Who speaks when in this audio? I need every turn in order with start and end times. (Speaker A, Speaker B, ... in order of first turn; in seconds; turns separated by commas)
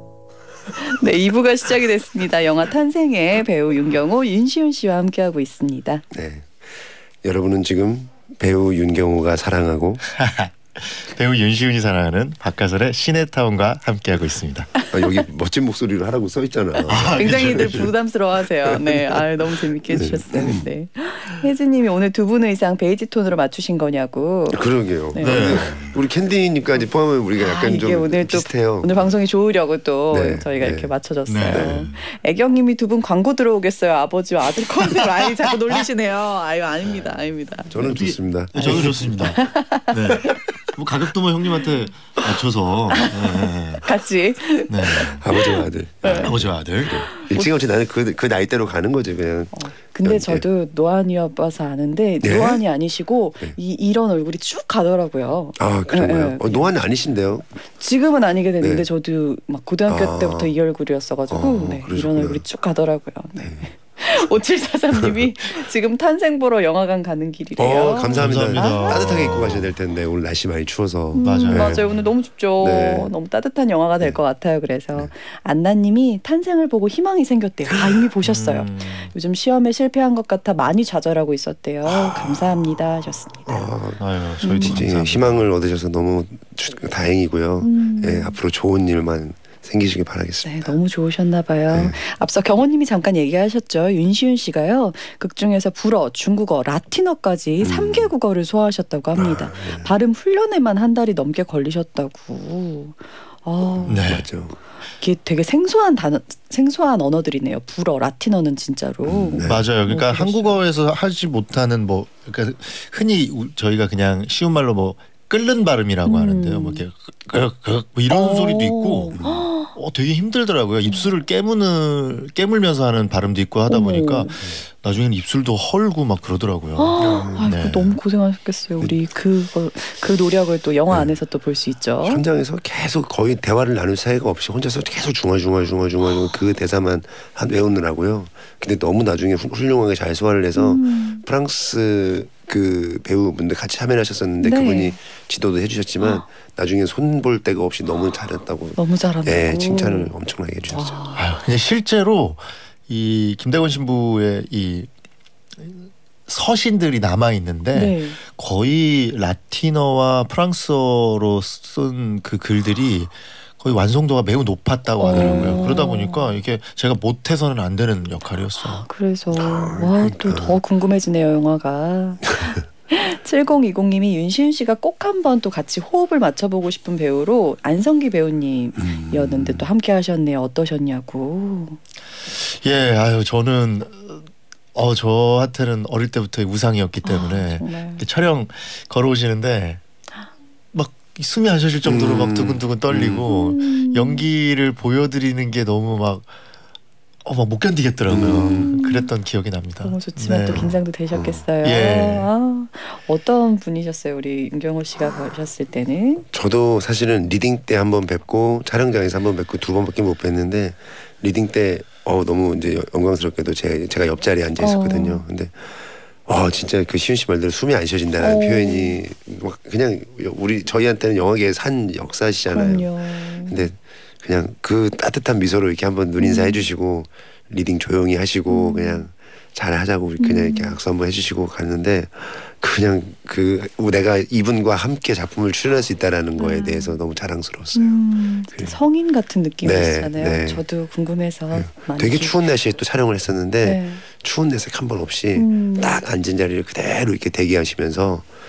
Speaker A: 0.8-6.0, Speaker B: 6.1-6.6, Speaker B: 7.2-10.1, Speaker C: 10.1-14.7, Speaker B: 14.9-17.9, Speaker C: 16.9-17.9, Speaker A: 17.1-25.7, Speaker B: 18.7-19.2, Speaker B: 19.9-20.6, Speaker B: 24.5-29.1, Speaker C: 25.2-26.0, Speaker A: 27.4-37.8, Speaker B: 30.1-30.9, Speaker C: 31.3-32.0, Speaker B: 31.5-31.8, Speaker B: 37.7-39.2, Speaker C: 37.8-43.9, Speaker A: 38.6-40.4, Speaker A: 42.9-47.5, Speaker C: 44.7-45.2, Speaker B: 45.2-50.4, Speaker C: 46.2-47.1, Speaker A: 49.5-56.7, Speaker B: 52.2-52.6, Speaker B: 55.6-57.5, Speaker A: 57.7-69.0, Speaker B: 58.6-58.9, Speaker B: 59.9-60.5, Speaker B: 61.3-62.4, Speaker B: 63.4-63.7, Speaker B: 67.6-72.0, Speaker C: 68.1-69.7, Speaker A: 71.2-83.7, Speaker C: 71.2-71.9, Speaker B: 72.6-73.1, Speaker C: 78.2-79.1, Speaker B: 81.8-82.8, Speaker B: 83.5-90.8, Speaker C: 84.0-85.5, Speaker A: 84.4-84.8, Speaker A: 87.6-88.4, Speaker A: 90.4-104.1, Speaker B: 91.7-92.0, Speaker B: 97.6-98.1, Speaker B: 99.1-99.9, Speaker C: 103.9-104.3, Speaker B: 103.9-104.6, Speaker A: 105.0-110.6, Speaker B: 109.0-109.7, Speaker C: 109.4-128.0, Speaker A: 116.0-116.8, Speaker A: 118.1-119.7, Speaker B: 119.1-119.4, Speaker A: 123.7-124.4, Speaker A: 126.8-132.2, Speaker B: 127.0-127.5, Speaker B: 132.0-151.0, Speaker A: 140.5-141.2, Speaker A: 144.4-145.0, Speaker A: 148.8-150.1, Speaker A: 150.7-151.3, Speaker C: 151.1-154.9, Speaker C: 155.6-168.8, Speaker A: 157.7-158.2, Speaker A: 165.0-166.4, Speaker B: 165.1-165.7, Speaker A: 168.6-181.8, Speaker B: 169.3-170.6, Speaker B: 178.8-179.6, Speaker C: 182.3-189.8, Speaker A: 187.0-188.0, Speaker C: 190.7-196.3, Speaker B: 191.8-193.3, Speaker A: 193.2-194.2, Speaker C: 197.2-200.7, Speaker B: 198.1-198.7, Speaker A: 198.2-199.1, Speaker A: 199.8-206.2, Speaker B: 200.5-201.4, Speaker C: 201.6-202.3, Speaker B: 206.3-238.8, Speaker A: 214.6-215.2, Speaker A: 218.2-219.0, Speaker A: 222.5-223.6, Speaker A: 226.2-226.7, Speaker A: 228.5-229.1, Speaker A: 230.2-230.8, Speaker A: 236.4-237.0, Speaker A: 237.7-242.4, Speaker B: 239.6-240.6, Speaker B: 241.5-248.3, Speaker A: 243.6-244.0, Speaker A: 245.3-246.0